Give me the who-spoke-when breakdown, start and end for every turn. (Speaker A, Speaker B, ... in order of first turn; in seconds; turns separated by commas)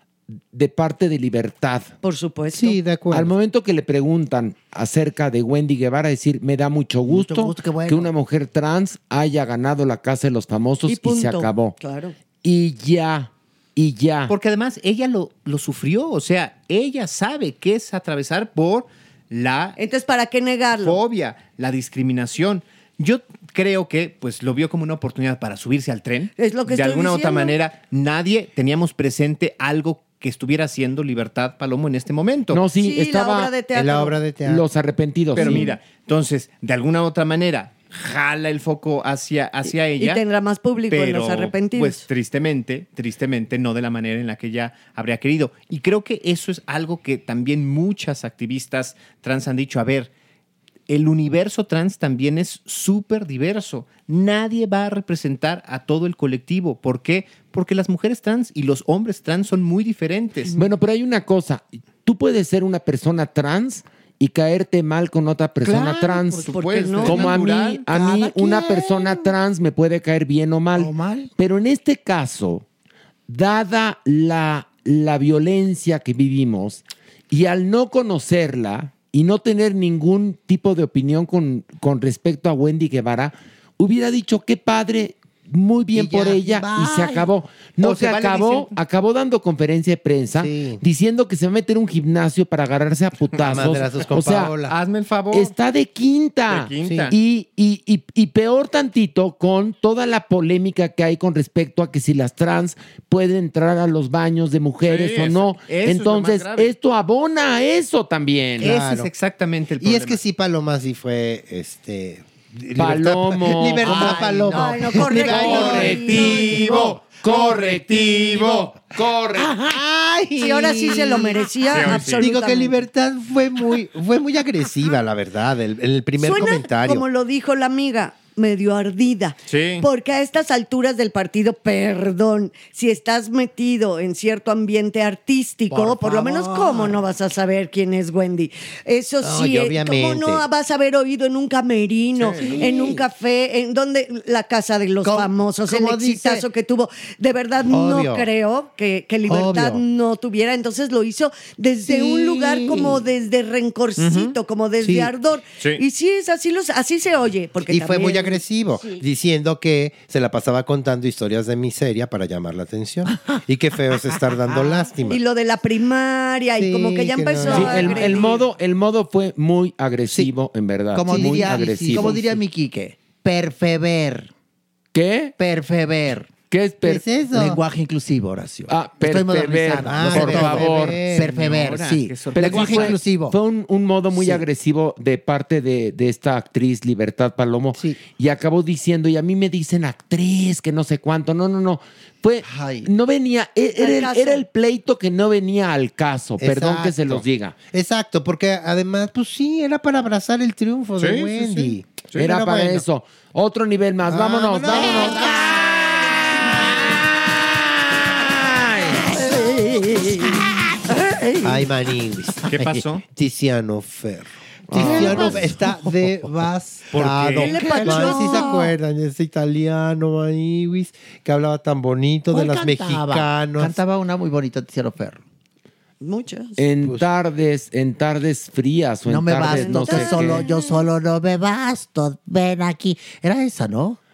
Speaker A: 0.5-1.9, Speaker B: 2.0-2.8, Speaker C: 2.5-3.3, Speaker A: 3.1-11.8, Speaker D: 7.0-8.1, Speaker B: 10.9-12.1, Speaker A: 12.4-14.3, Speaker E: 14.3-19.8, Speaker B: 19.8-21.0, Speaker E: 20.7-32.6, Speaker B: 26.4-27.6, Speaker A: 32.5-33.5, Speaker B: 32.8-34.1, Speaker C: 33.7-34.6, Speaker A: 34.4-35.6, Speaker E: 35.3-40.2, Speaker B: 35.4-35.8, Speaker B: 39.7-42.0, Speaker E: 40.9-50.1, Speaker E: 50.9-60.5, Speaker A: 60.5-72.6, Speaker B: 65.6-67.3, Speaker E: 66.4-67.8, Speaker D: 67.9-69.2, Speaker D: 70.7-71.3, Speaker A: 73.3-94.7, Speaker D: 85.9-87.3, Speaker E: 87.8-88.7, Speaker C: 90.4-90.8, Speaker C: 93.5-94.7, Speaker E: 94.7-95.5, Speaker A: 95.3-108.7, Speaker E: 96.5-97.1, Speaker C: 96.8-97.1, Speaker E: 104.8-106.7, Speaker E: 108.6-110.2, Speaker C: 108.6-109.1, Speaker C: 109.8-116.7, Speaker A: 112.7-114.3, Speaker D: 113.8-115.9, Speaker B: 114.5-116.5, Speaker A: 115.2-119.6, Speaker E: 115.9-118.5, Speaker D: 119.4-121.0, Speaker B: 120.3-122.8, Speaker C: 121.1-127.0, Speaker E: 121.7-122.3, Speaker B: 126.2-158.4, Speaker E: 129.5-129.8, Speaker D: 135.7-137.0, Speaker C: 139.2-140.4, Speaker A: 142.5-142.8, Speaker D: 145.0-146.4, Speaker C: 147.7-148.3, Speaker C: 149.3-149.8, Speaker C: 152.2-152.9, Speaker E: 154.0-154.3, Speaker C: 154.8-155.1, Speaker C: 157.7-165.2, Speaker D: 163.1-163.4, Speaker D: 164.5-164.9, Speaker B: 165.1-168.3, Speaker C: 166.6-168.3, Speaker A: 167.5-172.2, Speaker D: 170.9-174.3, Speaker C: 171.1-172.3, Speaker A: 174.9-175.3, Speaker D: 175.4-176.4, Speaker A: 176.5-177.0, Speaker C: 176.9-177.6, Speaker D: 177.3-183.3, Speaker A: 178.7-181.1, Speaker C: 179.8-181.5, Speaker E: 181.2-182.9, Speaker A: 182.3-197.5, Speaker D: 192.4-192.9, Speaker B: 193.8-194.4, Speaker C: 196.4-202.8, Speaker E: 201.0-201.4, Speaker A: 202.2-206.9, Speaker C: 204.1-205.4, Speaker D: 204.6-205.4, Speaker A: 208.1-210.3, Speaker C: 211.4-223.8, Speaker E: 212.5-213.0, Speaker A: 214.7-215.5, Speaker D: 214.8-215.4, Speaker E: 216.9-217.5, Speaker B: 217.4-218.7, Speaker D: 217.5-218.5, Speaker D: 222.3-225.2, Speaker B: 226.0-226.6, Speaker A: 226.6-230.4, Speaker D: 229.1-234.0, Speaker B: 229.5-230.8